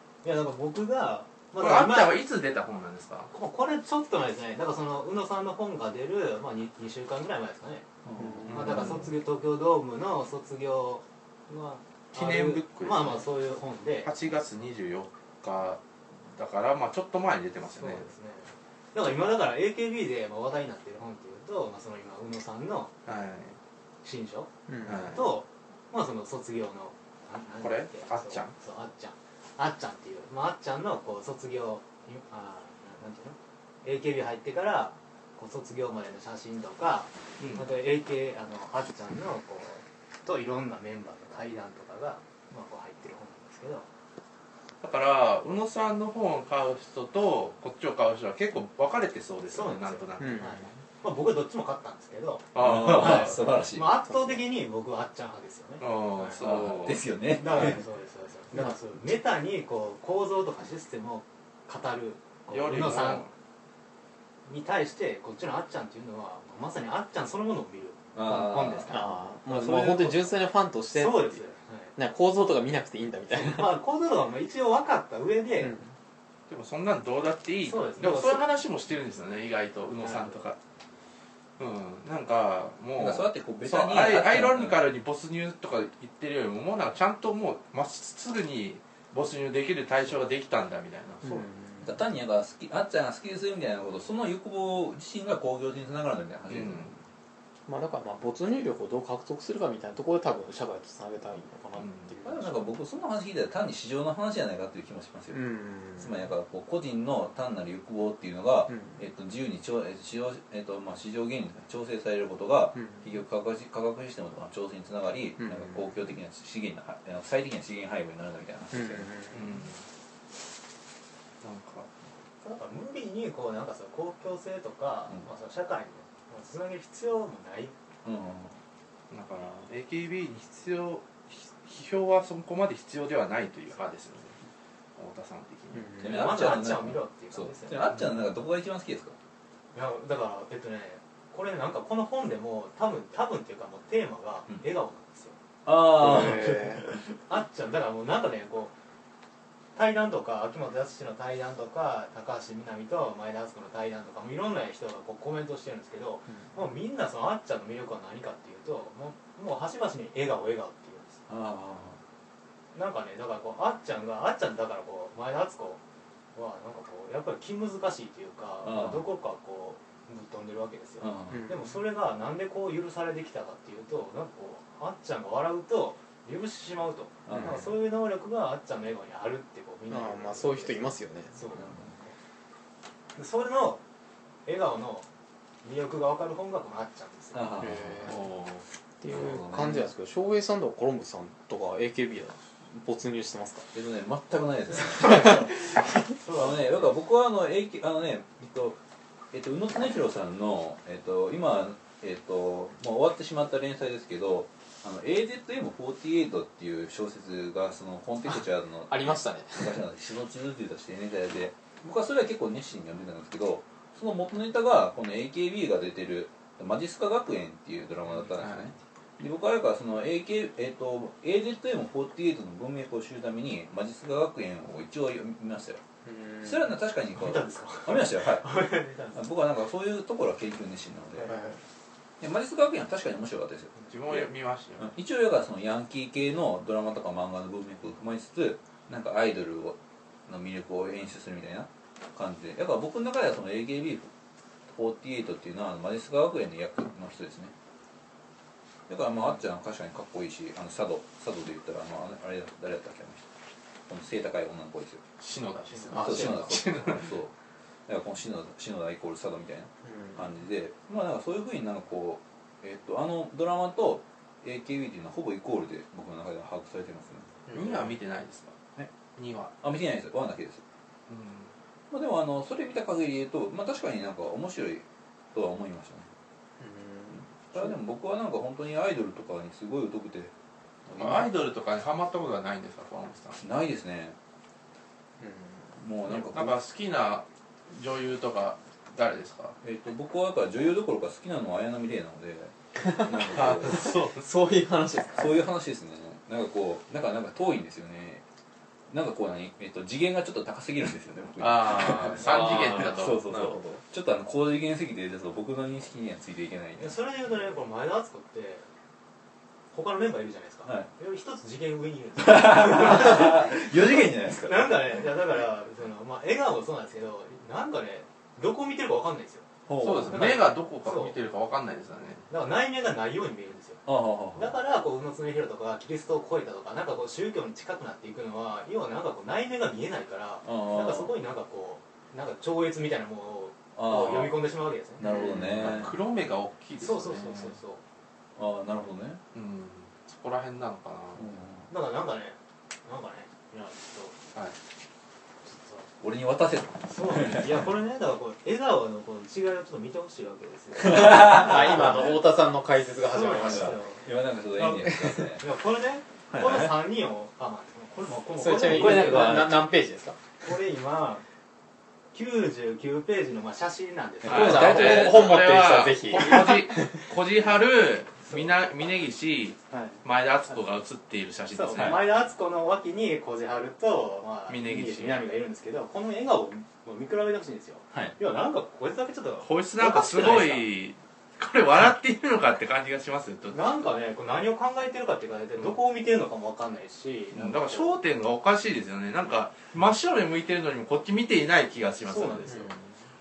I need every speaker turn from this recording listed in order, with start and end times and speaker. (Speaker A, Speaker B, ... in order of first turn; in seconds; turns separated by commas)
Speaker A: 0.2-2.2, Speaker B: 1.6-3.3, Speaker A: 3.3-7.8, Speaker C: 8.1-8.4, Speaker D: 8.2-9.0, Speaker B: 8.5-9.1, Speaker A: 8.5-14.1, Speaker B: 12.1-13.3, Speaker B: 14.0-18.1, Speaker A: 17.8-22.9, Speaker B: 23.1-23.6, Speaker A: 24.0-43.9, Speaker D: 24.7-25.1, Speaker B: 24.8-25.3, Speaker B: 27.6-28.6, Speaker B: 37.4-37.7, Speaker B: 44.8-50.5, Speaker A: 49.5-56.4, Speaker D: 50.2-50.7, Speaker B: 52.5-53.4, Speaker C: 52.6-54.0, Speaker B: 55.8-57.0, Speaker C: 56.4-57.8, Speaker A: 57.2-63.3, Speaker B: 62.5-63.3, Speaker A: 64.5-69.1, Speaker C: 68.1-68.9, Speaker D: 68.9-71.4, Speaker C: 69.5-70.3, Speaker A: 70.9-71.9, Speaker D: 71.9-73.8, Speaker A: 73.3-75.7, Speaker D: 75.6-75.9, Speaker B: 76.5-80.6, Speaker A: 77.6-78.4, Speaker A: 80.0-80.4, Speaker B: 81.6-91.4, Speaker C: 83.0-84.8, Speaker D: 91.2-92.0, Speaker C: 91.8-97.0, Speaker B: 96.5-96.9, Speaker D: 97.7-102.5, Speaker B: 101.8-102.1, Speaker C: 102.2-119.1, Speaker D: 105.3-106.2, Speaker D: 108.7-109.0, Speaker D: 112.8-113.0, Speaker D: 115.4-115.9, Speaker D: 118.7-119.6, Speaker B: 119.3-119.8, Speaker B: 121.4-121.9, Speaker A: 122.4-127.7, Speaker C: 128.0-128.6, Speaker B: 129.1-134.3, Speaker B: 134.9-135.9, Speaker D: 135.7-136.3, Speaker C: 136.0-139.2, Speaker A: 136.0-137.9, Speaker A: 139.7-145.4, Speaker C: 145.7-147.0, Speaker D: 145.9-146.8, Speaker A: 147.3-148.7, Speaker A: 149.7-161.2, Speaker C: 161.3-162.0, Speaker A: 162.7-165.8, Speaker A: 166.3-182.1, Speaker C: 168.6-169.1, Speaker C: 171.0-171.4, Speaker D: 171.3-171.7, Speaker C: 177.2-177.7, Speaker D: 177.3-177.6, Speaker D: 179.9-181.4, Speaker C: 181.5-181.9, Speaker A: 183.1-183.8, Speaker A: 184.4-185.1, Speaker A: 185.6-187.6, Speaker C: 187.3-188.2, Speaker D: 187.6-188.2, Speaker B: 188.0-188.6, Speaker D: 189.0-193.7, Speaker C: 189.1-189.9, Speaker C: 193.7-198.8, Speaker D: 195.0-195.3, Speaker A: 196.2-196.9, Speaker C: 199.3-225.8, Speaker D: 208.3-209.8, Speaker B: 218.3-218.7, Speaker D: 226.0-226.7, Speaker C: 226.4-231.3, Speaker A: 227.1-229.2, Speaker D: 231.2-231.6, Speaker C: 232.2-233.7, Speaker B: 233.9-234.9, Speaker C: 234.8-244.1, Speaker C: 244.7-247.5, Speaker C: 248.9-253.3, Speaker C: 253.9-255.0, Speaker B: 255.2-257.1, Speaker D: 255.9-256.5, Speaker C: 255.9-257.3, Speaker C: 257.9-267.3, Speaker D: 259.8-260.2, Speaker D: 267.5-267.9, Speaker B: 267.5-268.6, Speaker B: 269.1-269.5, Speaker C: 269.6-270.6, Speaker B: 271.1-271.5, Speaker C: 271.9-276.1, Speaker D: 276.6-277.8, Speaker C: 277.4-280.3, Speaker C: 280.9-281.3, Speaker B: 281.0-283.4, Speaker C: 283.4-284.1, Speaker D: 285.2-285.8, Speaker C: 285.8-286.6, Speaker B: 286.0-289.5, Speaker C: 289.6-293.9, Speaker D: 292.8-295.4, Speaker B: 293.3-294.2, Speaker C: 295.1-298.2, Speaker C: 298.9-306.9, Speaker B: 301.4-303.6, Speaker D: 302.2-303.5, Speaker A: 306.8-308.6, Speaker A: 309.7-319.5, Speaker C: 310.6-310.9, Speaker C: 312.2-315.0, Speaker C: 319.7-320.4, Speaker B: 319.8-322.2, Speaker A: 320.1-321.1, Speaker A: 322.3-335.6, Speaker C: 323.9-324.6, Speaker C: 330.4-331.1, Speaker C: 333.7-336.0, Speaker D: 335.1-335.5, Speaker B: 335.5-337.5, Speaker A: 336.8-337.8, Speaker C: 338.4-339.2, Speaker B: 339.3-341.3, Speaker C: 341.1-341.7, Speaker A: 341.7-344.2, Speaker A: 345.4-345.9, Speaker C: 346.0-347.7, Speaker A: 346.9-352.2, Speaker C: 350.8-352.1, Speaker D: 350.9-353.8, Speaker A: 352.9-359.5, Speaker C: 353.2-355.5, Speaker C: 356.3-356.8, Speaker D: 358.4-360.2, Speaker C: 358.6-359.7, Speaker A: 360.4-361.2, Speaker A: 362.1-365.1, Speaker C: 364.2-365.3, Speaker B: 364.2-372.0, Speaker D: 364.3-367.1, Speaker A: 369.7-370.0, Speaker A: 371.5-380.7, Speaker C: 371.7-372.0, Speaker B: 374.5-375.2, Speaker B: 379.4-383.9, Speaker A: 383.5-388.0, Speaker B: 387.3-392.7, Speaker A: 392.0-392.7, Speaker D: 392.4-393.0